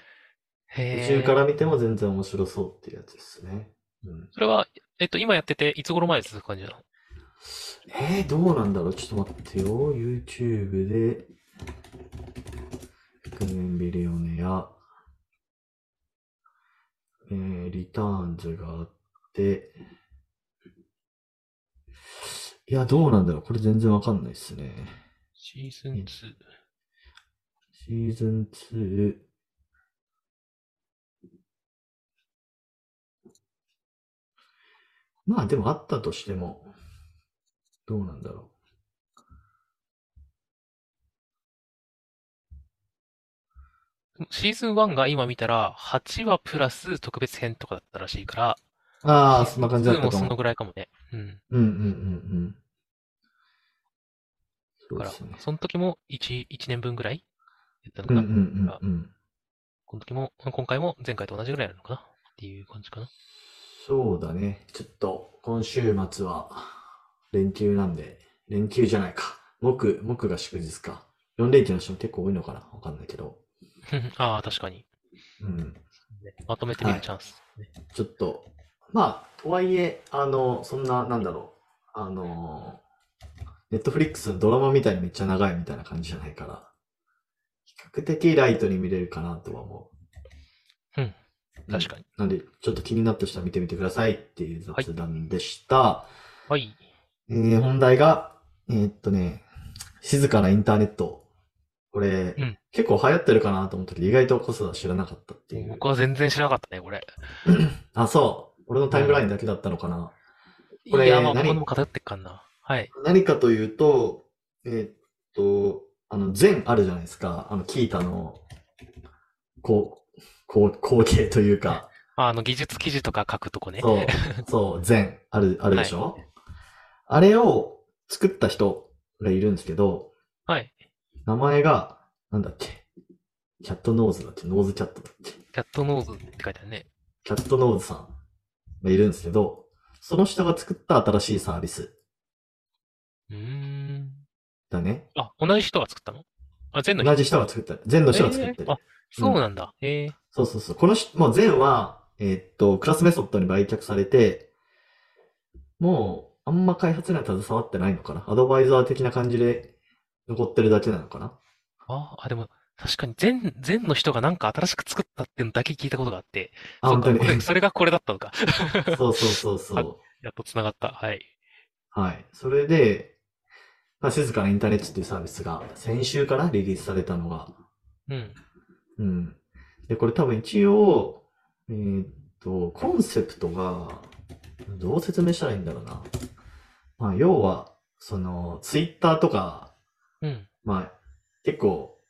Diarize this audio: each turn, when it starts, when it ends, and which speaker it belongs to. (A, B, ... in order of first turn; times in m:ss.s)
0:00.7-0:01.4 A
0:00.9-0:04.3 B
0:04.3-0:06.8 A
0:07.7-0:11.3 B
0:13.3-0:14.7 B
0:17.3-0:19.7 B
0:22.7-0:25.0 B
0:25.4-0:26.4 A
0:27.8-0:29.2 B
0:35.3-0:36.7 B
0:37.9-0:38.5 B
0:44.2-0:48.6 A
0:49.0-0:50.4 B
0:49.3-0:51.4 A
0:51.5-0:52.6 B
0:54.9-0:55.4 B
0:54.9-0:57.2 A
0:57.8-0:58.8 A
0:58.1-0:59.1 B
0:59.9-1:03.1 A
1:03.8-1:06.7 B
1:07.3-1:13.4 B
1:13.9-1:14.9 A
1:15.4-1:15.8 B
1:16.1-1:17.7 A
1:16.8-1:17.0 B
1:17.9-1:22.8 B
1:23.7-1:26.7 B
1:27.7-1:29.9 B
1:31.7-1:36.1 B
1:31.7-1:32.0 A
1:36.5-1:36.8 A
1:37.3-1:39.4 B
1:40.0-1:41.2 B
1:41.9-1:45.8 B
1:45.5-1:47.1 A
1:47.4-1:50.2 B
1:48.9-1:49.3 A
1:50.8-1:52.9 A
1:50.9-1:51.6 B
1:52.9-1:58.4 B
1:59.6-2:01.9 B
2:01.7-2:04.4 A
2:03.8-2:06.2 B
2:05.7-2:06.0 A
2:07.1-2:10.1 B
2:10.5-2:10.8 A
2:11.2-2:12.9 B
2:13.6-2:15.4 B
2:15.5-2:16.9 A
2:17.2-2:18.1 B
2:18.8-2:21.9 B
2:23.3-2:24.2 A
2:24.7-2:25.1 B
2:25.2-2:27.4 A
2:27.0-2:29.4 B
2:28.1-2:30.2 A
2:30.3-2:34.5 B
2:35.8-2:39.7 B
2:40.3-2:41.4 B
2:41.9-2:49.0 A
2:46.8-2:47.4 B
2:48.9-2:50.0 B
2:49.8-2:51.3 A
2:51.9-2:53.2 B
2:54.0-2:57.6 B
2:58.1-2:58.4 A
2:59.0-3:04.1 B
3:04.7-3:06.1 B
3:07.0-3:09.7 B
3:10.2-3:10.5 A
3:10.6-3:10.9 B
3:11.4-3:12.0 B